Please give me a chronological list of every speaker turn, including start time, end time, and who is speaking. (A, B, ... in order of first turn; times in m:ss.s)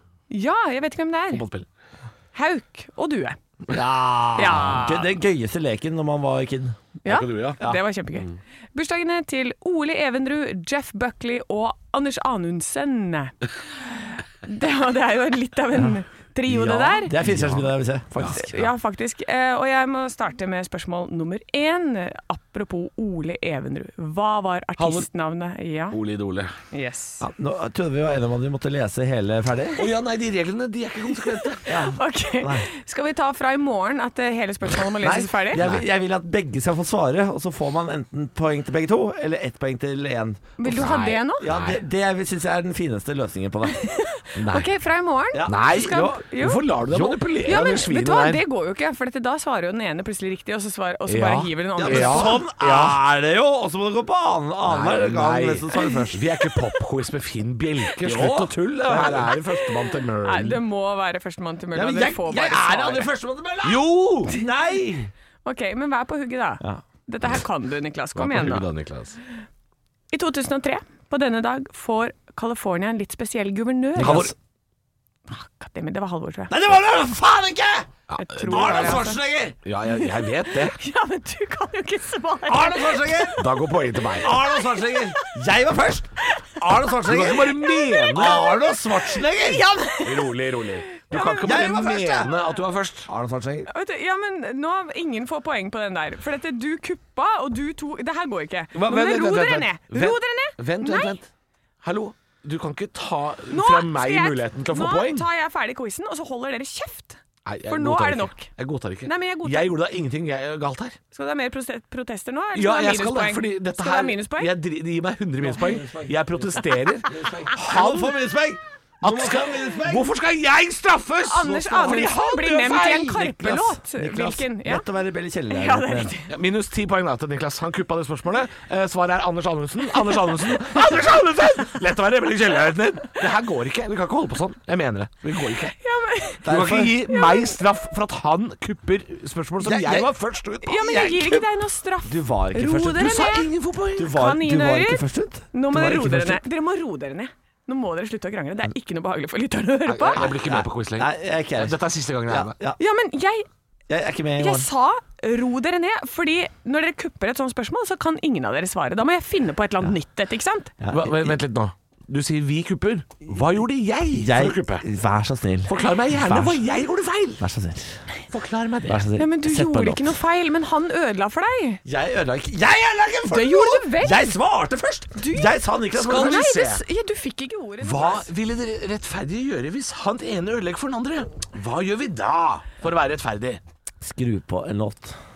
0:00.3-0:01.4 A
0:01.3-0:01.6 B
0:02.3-0:03.4 A
0:03.7-0:06.8 C
0:04.4-0:05.1 A
0:07.0-0:17.2 A
0:07.0-0:07.6 B
0:16.5-0:18.6 C
0:17.2-0:18.5 B
0:18.3-0:26.0 A
0:24.8-0:25.1 B
0:25.9-0:26.5 B
0:26.7-0:27.3 A
0:27.2-0:29.8 C
0:29.8-0:31.7 B
0:31.6-0:35.6 A
0:31.7-0:32.6 C
0:35.0-0:40.8 C
0:35.6-0:35.8 B
0:40.6-0:41.4 A
0:40.6-0:41.8 B
0:41.4-0:43.8 C
0:43.7-0:46.7 A
0:44.4-0:44.7 B
0:45.3-0:46.2 C
0:45.5-0:48.4 B
0:46.9-0:47.2 C
0:47.4-0:52.4 A
0:51.1-0:53.0 B
0:51.8-0:56.2 C
0:54.6-1:00.6 B
0:58.0-0:59.3 C
1:00.2-1:03.1 A
1:01.7-1:05.1 C
1:03.6-1:04.3 B
1:05.4-1:08.7 A
1:08.1-1:09.2 B
1:10.1-1:14.3 A
1:14.0-1:14.3 C
1:14.0-1:14.3 B
1:15.3-1:16.5 A
1:16.5-1:19.6 C
1:18.1-1:19.1 B
1:18.2-1:19.2 A
1:19.6-1:20.8 B
1:20.5-1:23.4 A
1:22.5-1:23.4 C
1:23.4-1:24.4 B
1:24.2-1:29.7 C
1:24.4-1:25.3 A
1:27.0-1:28.5 B
1:27.5-1:30.4 A
1:30.0-1:33.1 B
1:30.9-1:31.6 A
1:31.2-1:32.3 C
1:33.0-1:33.7 C
1:33.7-1:41.1 A
1:38.7-1:41.3 B
1:41.8-1:45.2 B
1:43.5-1:48.5 A
1:47.4-1:51.0 B
1:49.0-1:49.8 A
1:51.1-1:54.5 A
1:52.5-1:58.1 B
1:55.4-1:56.2 C
1:57.1-2:00.1 C
1:59.0-2:02.1 B
2:01.2-2:04.8 A
2:01.4-2:06.1 C
2:05.5-2:06.3 A
2:06.3-2:15.7 B
2:15.7-2:16.5 A
2:16.4-2:17.0 C
2:16.4-2:21.1 B
2:17.1-2:17.6 A
2:19.6-2:20.1 C
2:20.6-2:23.5 A
2:20.8-2:21.4 C
2:22.0-2:23.3 C
2:23.0-2:24.1 B
2:24.0-2:26.4 C
2:24.1-2:30.3 A
2:29.8-2:32.6 B
2:30.3-2:32.8 C
2:32.8-2:33.5 A
2:33.9-2:34.7 C
2:34.4-2:40.7 A
2:40.8-2:41.3 C
2:40.9-2:44.9 B
2:44.1-2:46.6 C
2:45.7-2:47.4 B
2:47.4-2:48.0 C
2:48.3-2:49.1 B
2:48.8-2:50.1 C
2:49.2-2:51.8 A
2:51.8-2:56.5 C
2:53.3-2:54.3 A
2:55.2-2:58.3 A
2:55.9-2:56.8 B
2:57.8-3:03.6 B
3:04.0-3:05.2 C